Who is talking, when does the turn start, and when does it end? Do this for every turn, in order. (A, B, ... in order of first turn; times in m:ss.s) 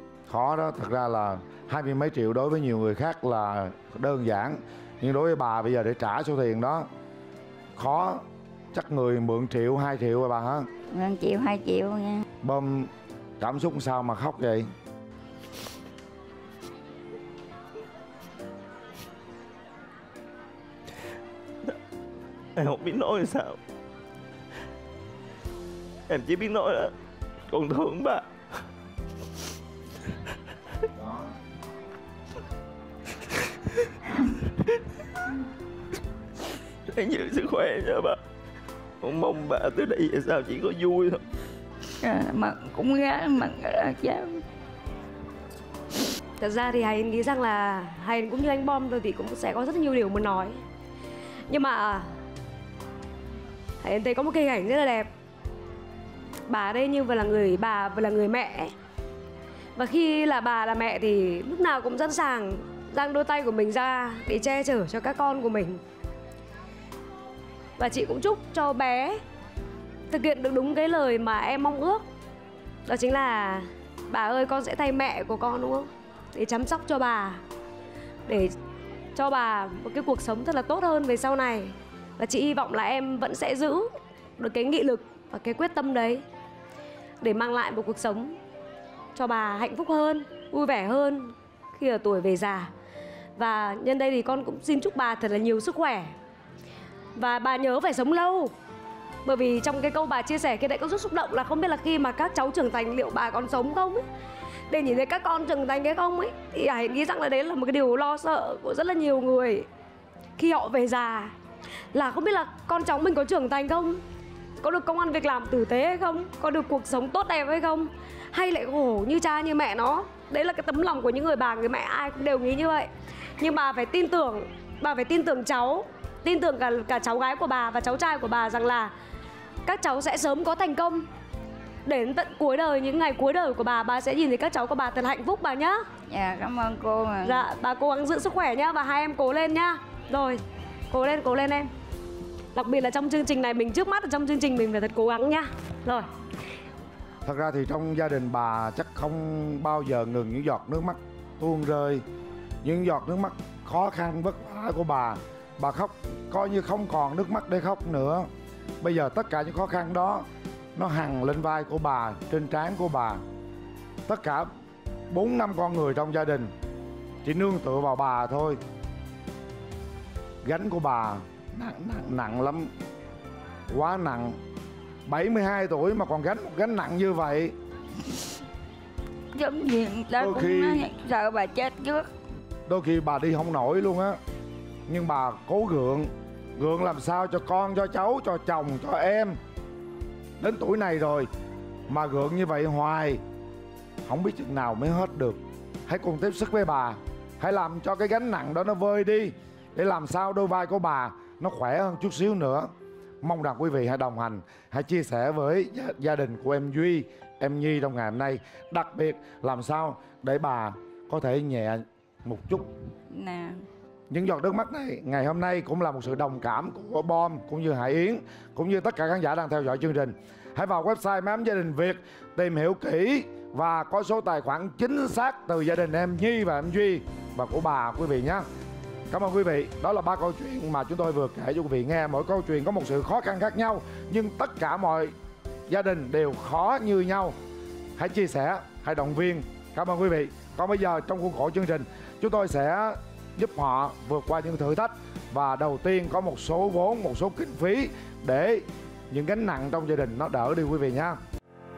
0:00.3-0:06.9 A
0:07.8-0:10.7 A
0:10.9-0:12.2 B
0:12.4-0:14.7 A
0:22.6-0:23.6 C
0:26.1-0:26.9 C
0:27.5-0:28.3 C
0:36.9-0:38.2 C
0:39.0-0:41.2 C
0:42.0-0:44.4 B
0:46.4-0:50.6 D
0:51.5-0:52.2 D
0:53.8-0:55.1 D
0:56.5-0:58.7 D
0:59.8-1:05.8 D
1:07.8-1:09.2 D
1:10.1-1:12.0 D
1:12.9-1:17.4 D
1:18.3-1:18.5 D
1:19.2-1:26.2 D
1:27.2-1:28.4 D
1:29.2-1:32.7 D
1:33.4-1:36.1 D
1:37.2-1:38.5 D
1:39.2-1:44.0 D
1:44.7-1:49.7 D
1:50.4-1:51.3 D
1:51.9-1:54.0 D
1:54.6-2:02.9 D
2:03.4-2:08.9 D
2:09.6-2:11.0 D
2:11.9-2:15.8 D
2:16.1-2:17.5 B
2:17.2-2:20.4 D
2:20.9-2:21.7 D
2:22.6-2:26.1 D
2:27.2-2:32.0 A
2:32.6-2:38.3 A
2:38.8-2:40.2 A
2:40.8-2:43.2 A
2:44.1-2:44.5 A
2:45.1-2:46.5 A
2:47.2-2:48.6 A
2:50.4-2:52.7 A
2:53.7-2:54.4 A
2:55.1-2:57.5 A
2:59.3-3:02.1 B
3:00.2-3:00.9 A
3:02.7-3:04.2 A
3:04.9-3:09.4 A
3:10.4-3:11.3 A
3:11.9-3:13.2 A
3:14.0-3:22.7 A
3:23.2-3:32.7 A
3:33.1-3:33.6 B
3:34.1-3:48.4 A
3:49.1-3:55.1 A
3:55.7-3:57.4 A
3:58.0-4:11.2 A